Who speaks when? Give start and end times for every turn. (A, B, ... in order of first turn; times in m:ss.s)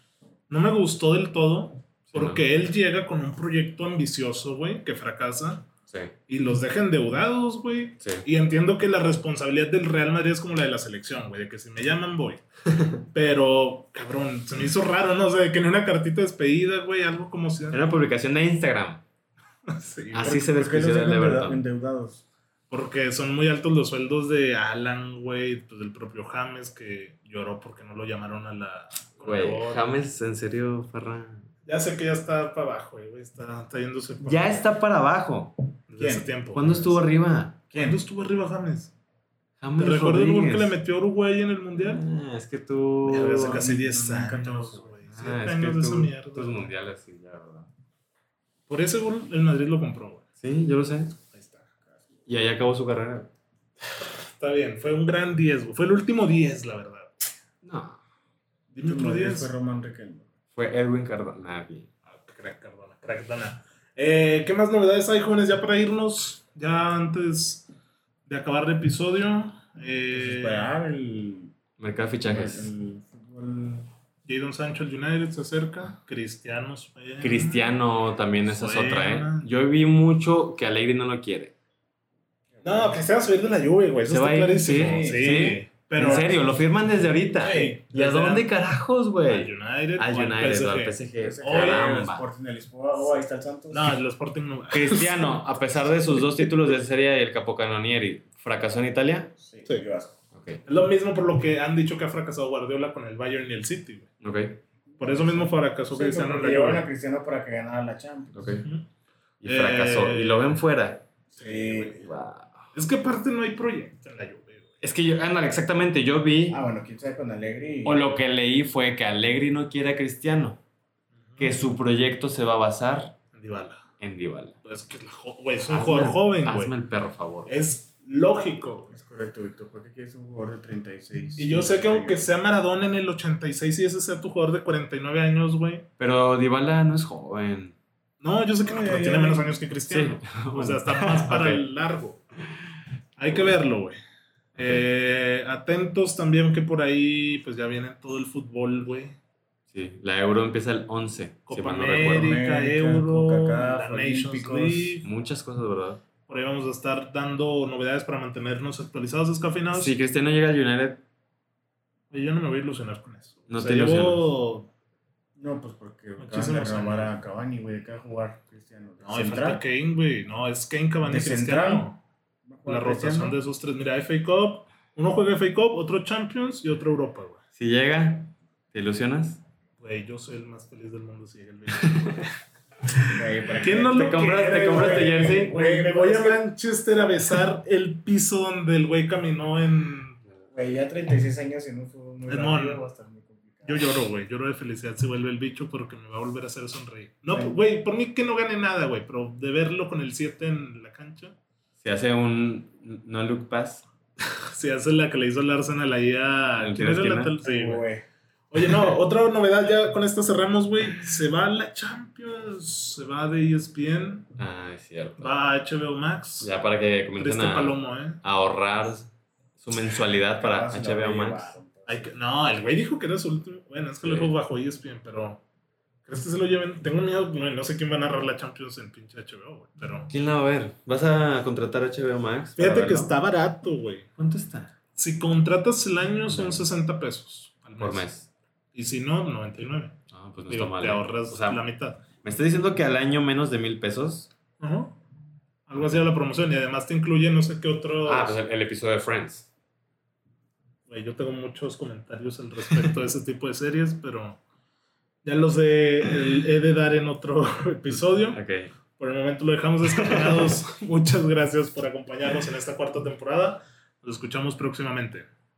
0:00.5-0:05.6 A
0:02.1-0:02.4 B
0:06.3-0:12.4 A
0:08.0-0:08.2 B
0:12.7-0:13.0 B
0:13.1-0:17.8 A
0:17.7-0:19.0 B
0:19.7-0:20.4 A
0:20.1-0:21.6 B
0:20.2-0:22.2 C
0:22.7-0:30.0 A
0:29.2-0:31.5 B
0:31.6-0:34.7 A
0:34.2-0:35.6 B
0:35.9-0:36.8 A
0:36.0-0:37.0 C
0:36.5-0:37.6 B
0:37.7-0:38.0 C
0:37.7-0:38.9 A
0:39.6-0:40.8 B
0:39.8-0:42.0 A
0:41.8-0:43.6 B
0:43.0-0:46.7 A
0:43.1-0:44.9 C
0:45.1-0:47.7 B
0:48.7-0:50.2 A
0:50.4-0:51.2 B
0:51.3-0:51.6 A
0:52.3-0:53.3 B
0:54.0-0:57.1 A
0:57.6-0:58.0 B
0:58.7-0:59.5 A
0:58.8-1:00.3 C
1:00.5-1:01.9 B
1:02.1-1:07.7 A
1:08.3-1:10.7 A
1:10.1-1:11.5 C
1:11.8-1:12.7 B
1:12.3-1:13.9 C
1:14.2-1:17.8 A
1:17.2-1:21.5 B
1:18.4-1:19.5 A
1:22.5-1:23.0 C
1:22.6-1:26.4 A
1:24.0-1:32.2 B
1:24.7-1:25.3 C
1:26.0-1:26.3 C
1:27.4-1:27.8 C
1:27.4-1:28.5 A
1:29.2-1:31.9 A
1:31.2-1:34.0 C
1:33.7-1:35.4 A
1:34.7-1:39.3 B
1:36.1-1:36.5 A
1:39.4-1:40.2 C
1:40.3-1:40.6 B
1:40.6-1:44.1 A
1:44.2-1:44.6 B
1:44.9-1:48.5 C
1:45.0-1:46.9 A
1:48.3-1:48.7 B
1:49.4-1:51.0 B
1:49.4-1:50.5 A
1:51.3-1:52.0 C
1:51.4-1:52.0 A
1:52.0-1:52.6 B
1:52.7-1:54.7 A
1:54.8-1:56.6 B
1:56.5-1:58.0 C
1:57.8-2:00.6 B
2:01.4-2:03.2 B
2:03.3-2:03.8 A
2:04.0-2:04.6 B
2:04.6-2:06.7 A
2:05.7-2:07.5 B
2:07.4-2:09.0 A
2:08.9-2:12.3 C
2:11.4-2:15.8 A
2:16.0-2:17.8 B
2:18.2-2:22.2 A
2:18.6-2:19.6 C
2:19.9-2:21.7 B
2:23.2-2:24.0 A
2:24.5-2:24.9 B
2:24.5-2:29.2 A
2:29.7-2:32.4 B
2:31.5-2:35.1 A
2:31.9-2:35.0 C
2:35.0-2:36.0 B
2:36.3-2:39.9 A
2:39.7-2:41.0 B
2:42.1-2:44.7 A
2:43.5-2:44.3 B
2:45.4-2:49.6 C
2:46.2-2:47.1 A
2:49.0-2:52.0 A
2:51.0-2:51.9 C
2:52.4-2:53.4 C
2:52.6-2:57.4 A
2:57.6-2:59.4 B
2:59.8-3:02.3 A
3:01.8-3:02.2 B
3:03.1-3:06.4 C
3:03.6-3:10.2 A
3:03.6-3:05.6 B
3:10.5-3:13.8 C
3:12.3-3:12.8 A
3:13.6-3:21.3 A
3:21.8-3:23.8 B
3:24.3-3:27.8 A
3:26.6-3:27.4 B
3:27.4-3:28.0 C
3:28.5-3:34.2 A
3:34.4-3:35.4 B
3:35.2-3:36.5 A
3:36.4-3:41.5 B
3:37.2-3:38.2 A
3:40.3-3:42.1 C
3:41.8-3:45.4 A
3:44.0-3:44.3 B
3:46.0-3:50.1 A
3:50.1-3:53.1 B
3:52.6-3:54.1 A
3:54.2-3:54.7 B
3:55.0-3:58.1 A
3:56.3-3:56.7 B
3:57.8-3:58.3 B
3:58.7-4:00.0 A
4:00.1-4:01.6 B
4:00.5-4:02.0 A
4:02.2-4:04.3 B
4:04.6-4:05.0 A
4:05.7-4:08.4 A
4:08.0-4:09.5 B
4:10.9-4:14.4 A
4:15.2-4:18.4 A
4:17.9-4:18.7 B
4:19.0-4:25.2 A
4:20.0-4:20.5 B